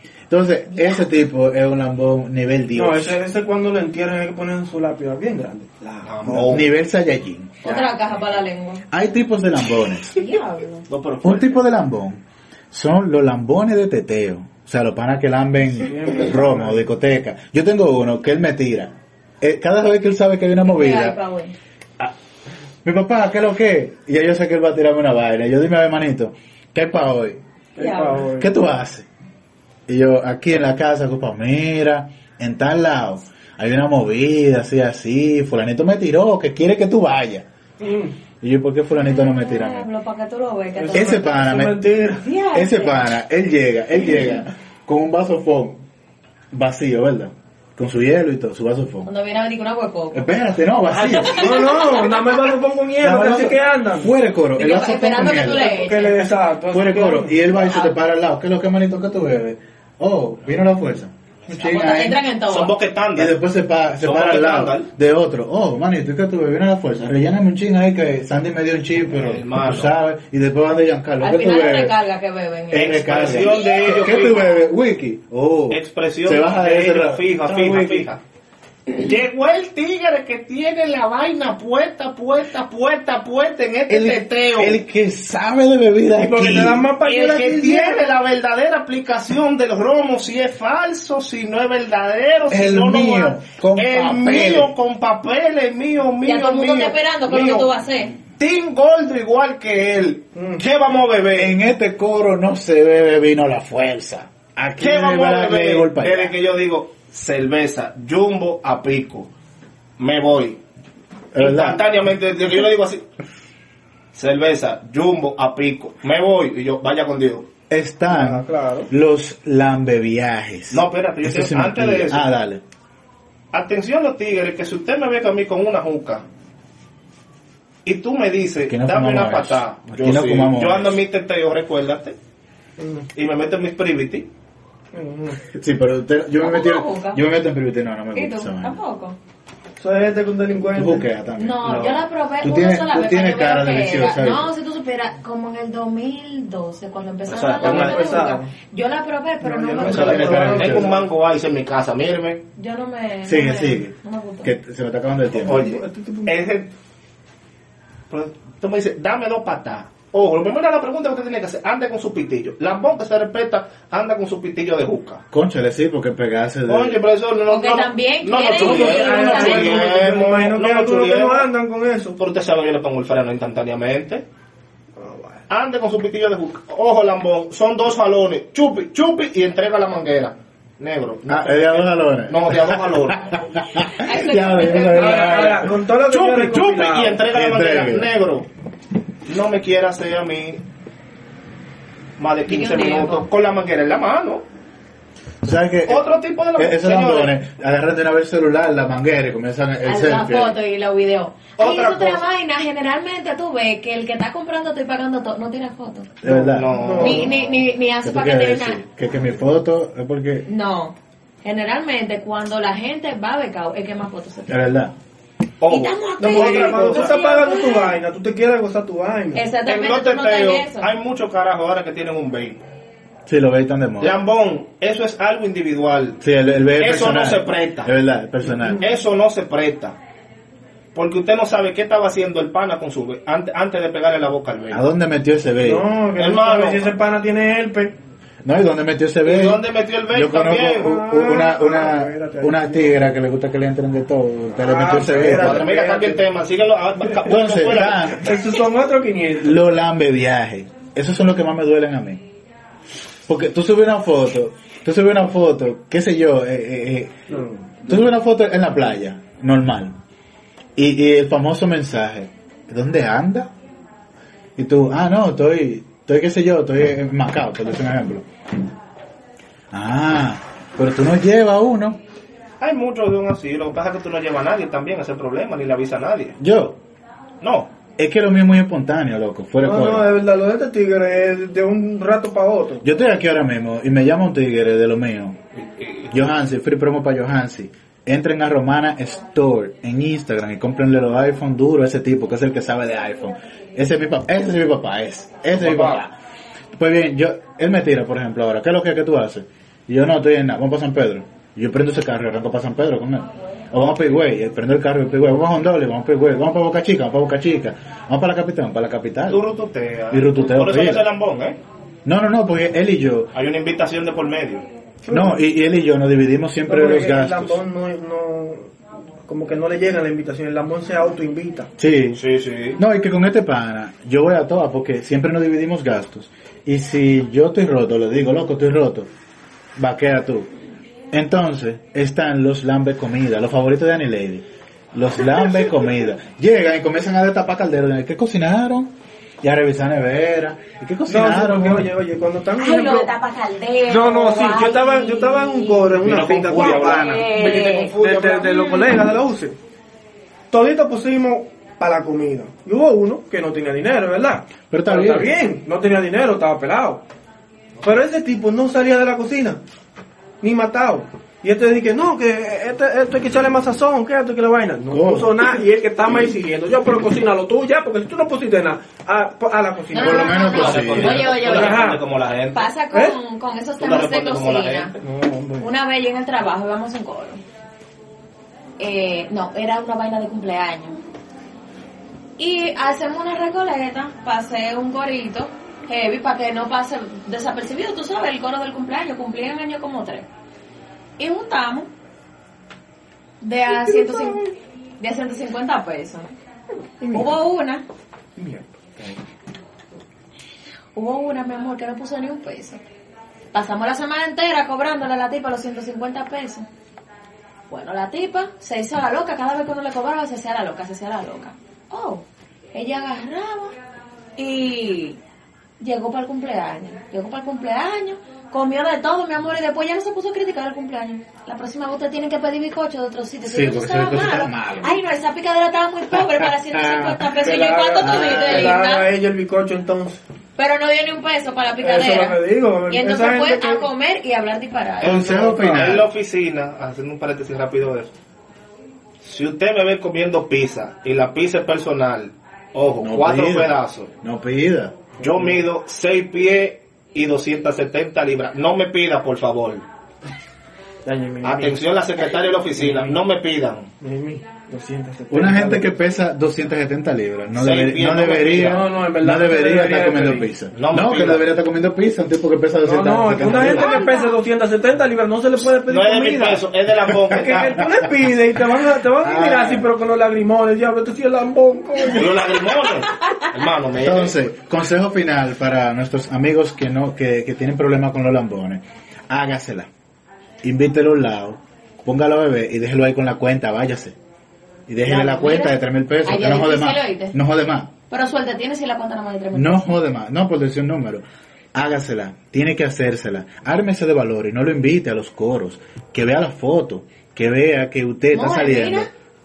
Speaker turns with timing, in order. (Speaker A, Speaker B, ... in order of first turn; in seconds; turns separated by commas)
Speaker A: 0.3-3.2, Speaker B: 2.8-6.6, Speaker C: 6.0-6.7, Speaker A: 6.3-7.8, Speaker D: 7.6-8.8, Speaker A: 8.9-10.3, Speaker D: 10.1-10.8, Speaker C: 10.9-11.6, Speaker A: 11.2-21.2, Speaker B: 15.8-16.8, Speaker D: 20.6-21.5, Speaker A: 22.8-27.4, Speaker B: 27.8-28.5, Speaker D: 27.8-28.2, Speaker A: 28.4-29.1, Speaker A: 29.9-37.5, Speaker B: 37.8-38.1, Speaker A: 38.4-39.9, Speaker D: 38.9-41.5, Speaker B: 40.7-42.3, Speaker A: 40.9-41.9, Speaker D: 42.2-43.1, Speaker A: 42.5-45.8, Speaker A: 46.5-49.1, Speaker D: 49.0-50.3, Speaker A: 50.1-51.8, Speaker D: 51.0-52.0, Speaker B: 51.3-54.1, Speaker A: 53.0-55.9, Speaker D: 54.5-56.3, Speaker B: 55.4-57.5, Speaker A: 56.7-62.2, Speaker D: 57.6-57.9, Speaker D: 61.6-62.7, Speaker C: 62.5-63.4, Speaker A: 63.1-72.0, Speaker C: 64.0-64.9, Speaker C: 69.1-69.9, Speaker D: 71.2-73.7, Speaker A: 72.7-78.1, Speaker C: 72.7-74.5, Speaker C: 75.7-78.2, Speaker C: 78.9-84.8, Speaker A: 83.9-86.8, Speaker B: 86.2-88.1, Speaker C: 87.0-97.7, Speaker A: 92.5-94.7, Speaker D: 96.2-98.2, Speaker C: 98.4-101.5, Speaker B: 100.3-100.6, Speaker A: 101.3-106.3, Speaker C: 104.8-109.3, Speaker C: 110.0-110.6, Speaker A: 111.3-111.8, Speaker C: 111.4-113.0, Speaker C: 114.1-117.5, Speaker A: 117.7-122.6, Speaker B: 118.1-118.9, Speaker C: 120.7-122.3, Speaker C: 123.5-126.2, Speaker C: 127.8-132.2, Speaker A: 128.7-131.0, Speaker B: 132.8-133.1, Speaker C: 133.1-134.3, Speaker B: 134.9-135.4, Speaker A: 135.5-138.8, Speaker D: 136.4-137.2, Speaker D: 138.1-139.2, Speaker B: 139.8-141.1, Speaker A: 140.7-141.9, Speaker D: 141.4-150.7, Speaker C: 141.6-142.0, Speaker A: 142.4-144.5, Speaker C: 147.3-148.1, Speaker B: 147.6-148.5, Speaker B: 149.4-151.0, Speaker C: 149.8-152.4, Speaker A: 149.8-151.0, Speaker D: 152.6-154.5, Speaker A: 153.2-155.7, Speaker C: 155.4-156.7, Speaker B: 155.5-156.4, Speaker C: 158.1-165.2, Speaker A: 165.3-167.0, Speaker C: 166.7-171.5, Speaker D: 167.5-169.9, Speaker B: 168.6-172.2, Speaker C: 172.2-174.2, Speaker B: 174.9-175.4, Speaker C: 175.5-183.2, Speaker A: 181.3-185.8, Speaker D: 184.0-185.6, Speaker B: 184.9-187.2, Speaker C: 186.0-188.5, Speaker A: 187.3-188.1, Speaker C: 189.2-190.6, Speaker C: 192.2-194.4, Speaker D: 192.5-193.2, Speaker A: 195.4-200.6, Speaker C: 195.9-197.3, Speaker D: 199.8-206.1, Speaker C: 201.6-202.2, Speaker A: 206.2-207.3, Speaker B: 206.2-207.3, Speaker C: 206.3-207.6, Speaker D: 207.0-208.8, Speaker A: 208.0-210.5, Speaker D: 210.4-214.6, Speaker A: 214.5-214.9, Speaker C: 215.6-217.2, Speaker D: 215.7-218.0, Speaker B: 216.2-219.5, Speaker D: 219.3-220.9, Speaker C: 219.7-222.6, Speaker A: 223.3-224.2, Speaker C: 224.0-226.2, Speaker A: 226.2-228.8, Speaker C: 226.8-227.9, Speaker C: 228.8-229.9, Speaker C: 230.9-234.8, Speaker A: 234.7-235.9, Speaker B: 235.6-238.0, Speaker C: 236.2-236.9, Speaker A: 238.4-245.7, Speaker C: 239.2-241.0, Speaker B: 240.8-243.1, Speaker B: 244.5-246.2, Speaker C: 244.9-248.3, Speaker A: 247.2-248.4, Speaker B: 248.1-249.6, Speaker A: 249.4-252.2, Speaker A: 253.3-257.1, Speaker B: 257.3-257.7, Speaker A: 257.8-259.9, Speaker A: 260.8-263.5, Speaker A: 264.6-268.2, Speaker A: 269.7-272.0, Speaker C: 272.6-276.4, Speaker A: 276.4-276.8, Speaker C: 277.4-277.7, Speaker A: 278.0-280.1, Speaker B: 279.6-282.8, Speaker A: 282.8-285.4, Speaker C: 285.5-286.3, Speaker A: 286.1-296.2, Speaker B: 295.6-296.0, Speaker A: 296.8-309.4, Speaker C: 309.3-311.6, Speaker A: 310.1-311.1, Speaker A: 312.0-313.3, Speaker C: 313.3-314.6, Speaker B: 315.0-315.4, Speaker A: 315.1-317.6, Speaker B: 316.6-318.7, Speaker B: 319.2-321.7, Speaker A: 321.8-322.2, Speaker C: 322.1-322.8, Speaker A: 322.8-329.1, Speaker A: 329.8-330.5, Speaker A: 331.1-341.9, Speaker B: 341.1-343.1, Speaker D: 342.6-348.9, Speaker B: 343.9-349.6, Speaker C: 346.0-348.6, Speaker B: 350.5-357.0, Speaker A: 354.7-355.4, Speaker B: 357.8-359.6, Speaker B: 360.4-370.4, Speaker A: 364.9-365.5, Speaker D: 369.9-371.9, Speaker A: 370.0-371.3, Speaker C: 370.4-372.7, Speaker B: 371.3-372.0, Speaker D: 372.5-374.9, Speaker B: 372.9-373.2, Speaker C: 373.8-374.9, Speaker B: 375.0-375.7, Speaker D: 375.6-377.4, Speaker D: 378.8-381.0, Speaker D: 382.4-390.3, Speaker D: 391.2-391.9, Speaker D: 393.4-396.3, Speaker B: 393.7-394.5, Speaker B: 397.0-397.4, Speaker D: 397.1-397.8, Speaker B: 398.4-399.2, Speaker D: 400.9-402.8, Speaker D: 403.5-406.6, Speaker D: 407.7-413.7, Speaker D: 414.4-415.2, Speaker D: 415.8-429.1, Speaker A: 423.4-425.0, Speaker A: 426.4-427.1, Speaker B: 427.2-430.2, Speaker A: 428.0-428.4, Speaker D: 430.6-435.2, Speaker B: 431.8-433.9, Speaker A: 435.0-436.1, Speaker C: 435.0-438.1, Speaker B: 435.1-435.9, Speaker C: 439.2-444.1, Speaker A: 443.0-445.0, Speaker C: 445.2-449.8, Speaker B: 445.2-445.5, Speaker B: 451.0-451.8, Speaker C: 451.4-453.9, Speaker B: 452.8-453.2, Speaker B: 454.0-455.9, Speaker A: 455.3-464.0, Speaker C: 457.5-458.9, Speaker B: 458.6-460.5, Speaker C: 460.7-461.5, Speaker B: 462.8-466.6, Speaker C: 463.4-463.9, Speaker D: 463.7-464.3, Speaker C: 465.7-467.8, Speaker A: 467.1-468.1, Speaker B: 467.3-472.6, Speaker A: 469.2-469.9, Speaker C: 472.1-474.4, Speaker A: 473.9-479.9, Speaker A: 480.6-484.1, Speaker A: 484.9-487.9, Speaker D: 485.0-487.4, Speaker D: 488.1-489.9, Speaker A: 489.5-499.1, Speaker D: 498.3-499.1